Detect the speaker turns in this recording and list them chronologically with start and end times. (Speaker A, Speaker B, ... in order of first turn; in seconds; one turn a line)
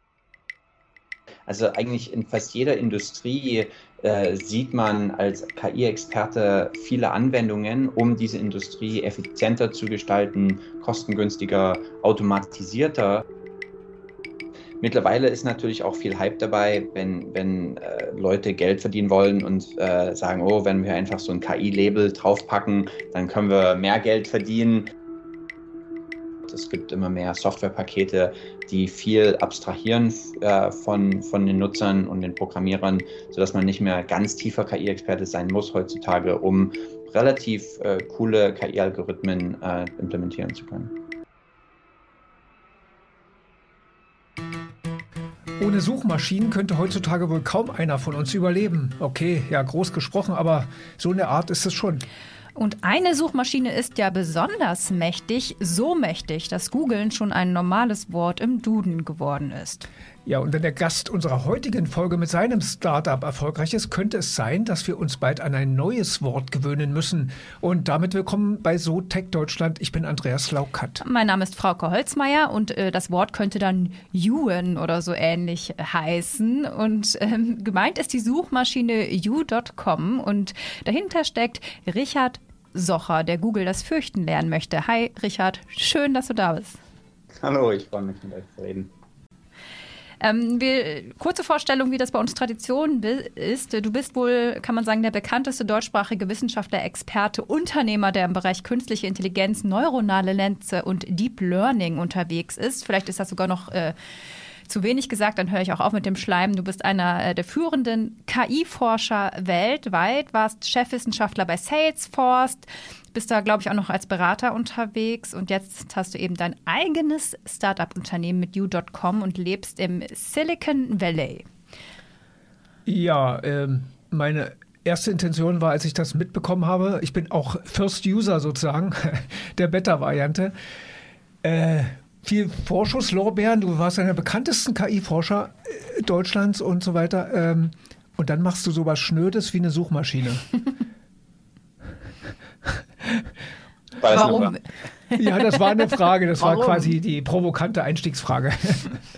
Speaker A: 1.5-13.2
Speaker A: 14.8-24.9
Speaker A: 26.4-40.9
Speaker B: 45.6-52.0
Speaker C: 52.5-59.9
Speaker B: 60.2-71.0
Speaker C: 71.0-86.8
Speaker A: 87.4-88.9
Speaker C: 90.2-103.9
Speaker C: 104.7-121.5
Speaker B: 122.8-130.5
Speaker B: 131.4-140.5
Speaker B: 143.0-143.3
Speaker A: 144.0-144.5
Speaker C: 144.1-145.5
Speaker B: 145.2-149.0
Speaker C: 146.4-146.9